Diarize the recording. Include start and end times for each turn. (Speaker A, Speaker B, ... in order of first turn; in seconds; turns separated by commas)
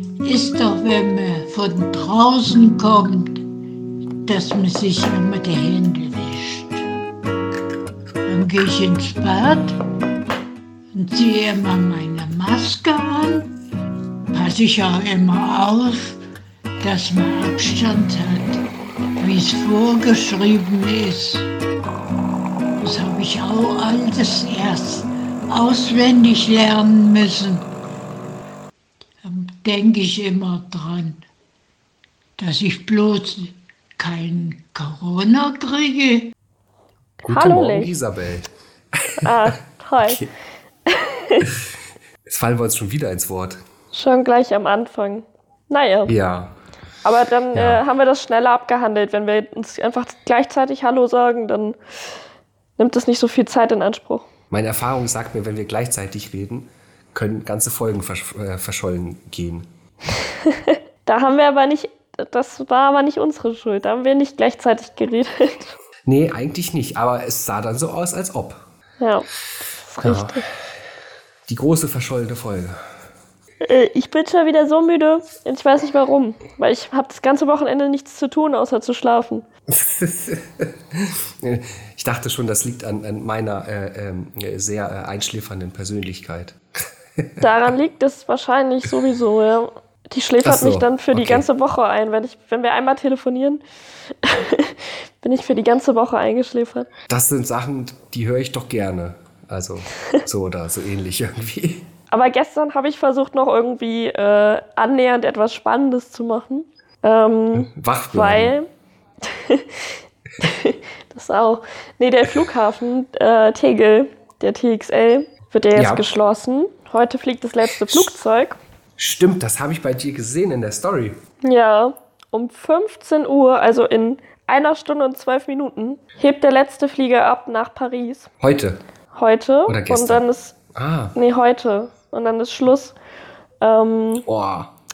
Speaker A: 0.2-3.5, Speaker A: 4.2-6.8, Speaker A: 8.2-9.8, Speaker A: 10.9-13.5, Speaker A: 14.3-16.2, Speaker A: 16.8-18.6, Speaker A: 19.2-21.5, Speaker A: 22.8-27.7, Speaker A: 29.2-31.2, Speaker A: 32.4-36.3, Speaker B: 37.2-37.9, Speaker C: 37.2-39.3, Speaker B: 39.2-40.2, Speaker C: 40.0-40.3, Speaker B: 40.9-41.5, Speaker C: 42.2-43.6, Speaker B: 43.9-46.1, Speaker C: 46.1-46.5, Speaker B: 47.0-51.8, Speaker C: 47.5-47.8, Speaker B: 52.8-54.3, Speaker C: 54.5-59.7, Speaker B: 60.3-65.7, Speaker C: 66.0-68.6, Speaker B: 69.0-69.3, Speaker B: 69.9-70.4, Speaker C: 70.0-70.4, Speaker C: 71.5-72.8, Speaker B: 73.6-79.5, Speaker C: 79.7-86.6, Speaker B: 87.4-93.6, Speaker C: 90.4-91.4, Speaker B: 94.2-96.9, Speaker C: 97.1-101.9, Speaker B: 102.1-108.7, Speaker C: 107.5-108.5, Speaker B: 109.2-109.8, Speaker B: 110.4-118.6, Speaker C: 115.7-116.0, Speaker C: 119.0-121.2, Speaker B: 121.4-128.3, Speaker C: 128.4-128.8, Speaker B: 129.1-130.6, Speaker C: 129.7-131.1, Speaker B: 131.1-132.9, Speaker B: 133.6-134.2, Speaker C: 134.3-134.7